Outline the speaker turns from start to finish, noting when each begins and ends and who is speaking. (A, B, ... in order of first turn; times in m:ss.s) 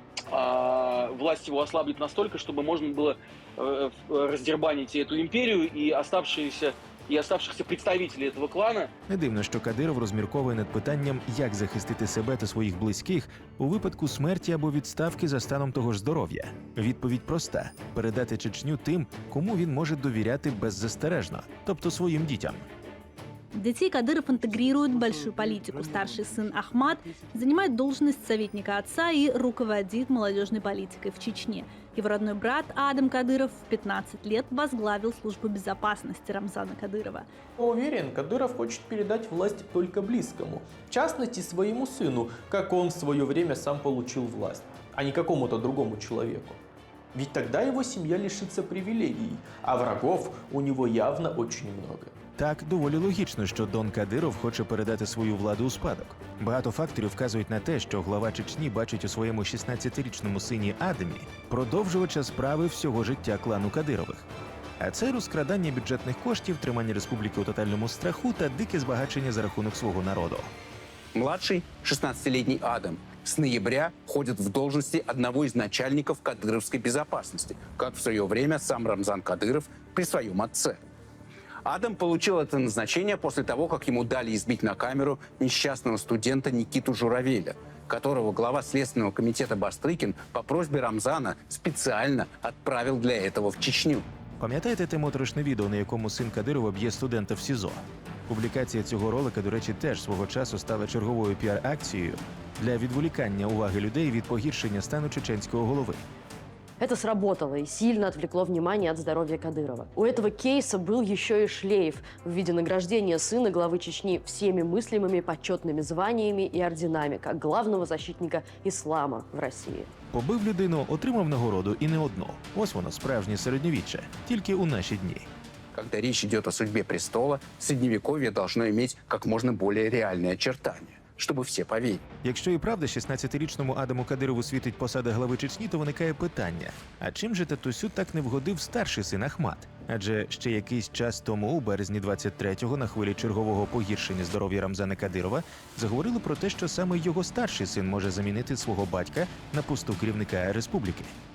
0:00.3-0:08.9 A
0:09.1-0:22.6 B
0:23.5-0:37.3 C
0:37.6-0:46.6 D
0:47.1-0:52.2 D
0:52.4-1:04.3 B
1:04.8-1:10.5 B
1:11.1-1:20.8 E
1:21.6-1:34.0 E
1:34.4-1:46.0 B
1:46.8-1:59.9 F
2:00.1-2:05.3 B
2:05.8-2:12.0 E
2:12.2-2:31.1 B